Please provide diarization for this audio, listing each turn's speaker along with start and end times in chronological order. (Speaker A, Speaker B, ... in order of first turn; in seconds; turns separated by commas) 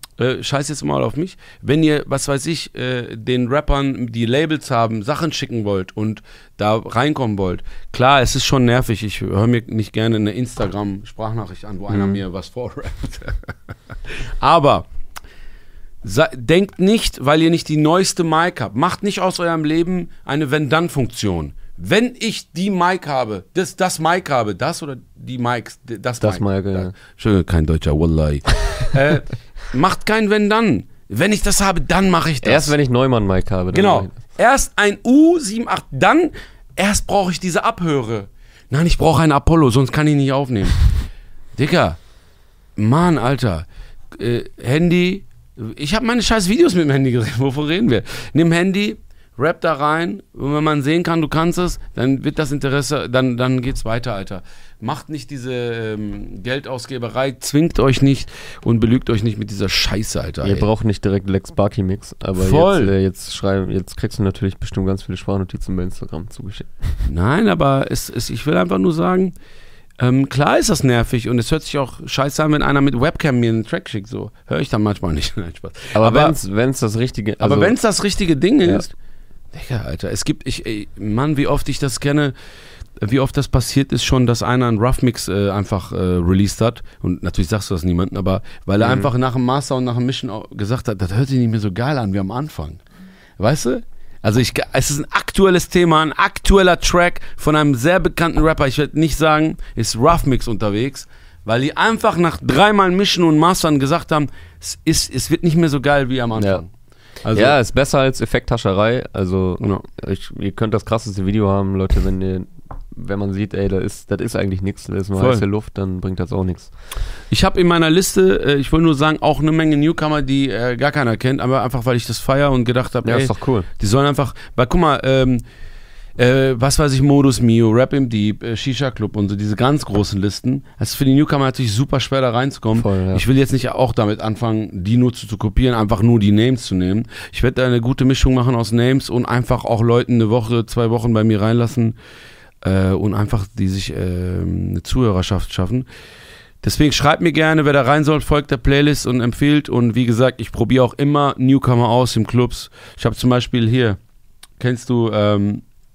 Speaker A: 0.2-13.5, Speaker B: 11.9-12.2, Speaker A: 14.1-14.9, Speaker A: 16.0-32.7, Speaker B: 26.2-26.9, Speaker B: 32.4-34.2, Speaker A: 33.7-40.8, Speaker A: 41.5-42.0, Speaker A: 42.8-60.7, Speaker B: 60.4-67.0, Speaker A: 62.4-62.9, Speaker A: 67.0-69.3, Speaker A: 70.0-76.3, Speaker B: 75.9-77.8, Speaker A: 77.4-78.9, Speaker A: 79.5-82.3, Speaker A: 83.0-92.8, Speaker B: 88.8-89.1, Speaker A: 93.4-106.7, Speaker B: 106.4-106.6, Speaker A: 107.2-107.6, Speaker B: 107.3-116.7, Speaker A: 115.2-115.4, Speaker A: 117.3-125.4, Speaker B: 123.0-123.7, Speaker A: 126.2-141.9, Speaker B: 132.7-133.2, Speaker A: 142.6-145.9, Speaker A: 146.6-154.0, Speaker A: 154.6-155.6